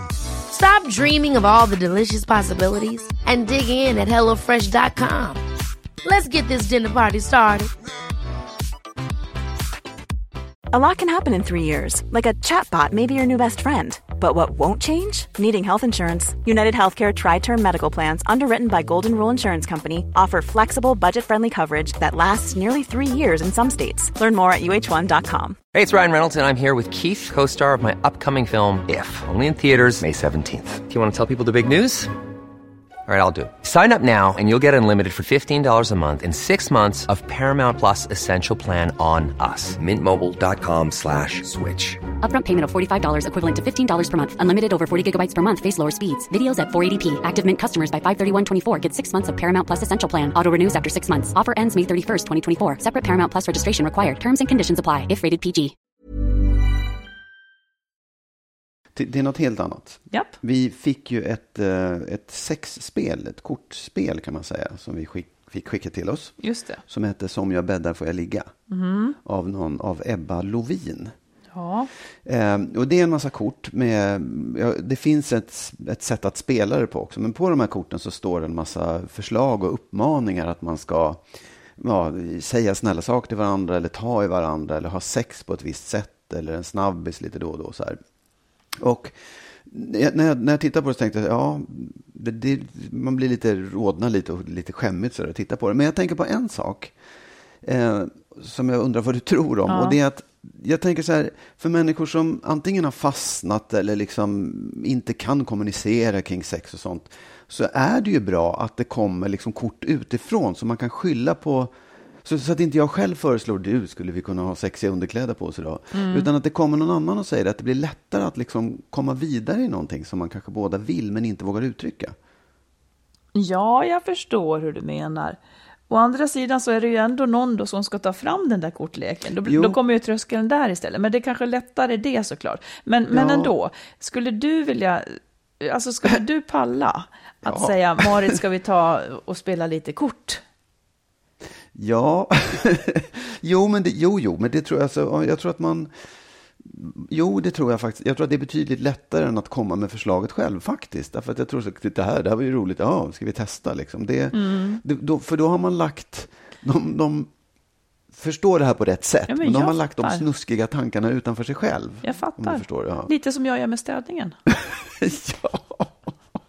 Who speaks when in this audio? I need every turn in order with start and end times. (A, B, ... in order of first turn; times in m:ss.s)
0:00.5-0:05.4 A
0:06.0-0:07.7 A
0:10.7-0:25.6 B
0:25.7-0:32.1 C
0:33.1-0:42.0 C
0:42.2-0:55.8 D
0:59.0-1:08.5 E
1:00.1-1:00.4 F
1:06.4-1:06.8 F
1:08.7-1:09.2 F
1:09.2-1:11.1 E
1:11.5-1:11.9 F
1:12.2-1:21.2 E
1:21.8-1:28.0 E
1:28.8-1:36.9 E
1:37.6-1:51.7 E
1:39.7-1:40.0 F
1:52.2-2:02.2 E
1:55.9-1:56.3 F
2:03.4-2:20.4 F
2:09.4-2:09.8 E
2:13.1-2:13.5 E
2:17.4-2:18.4 E
2:21.7-2:25.9 E
2:26.6-2:37.3 E
2:34.3-2:34.8 F
2:38.1-2:43.1 E
2:39.3-2:40.2 F
2:42.0-2:44.4 F
2:44.5-2:46.1 E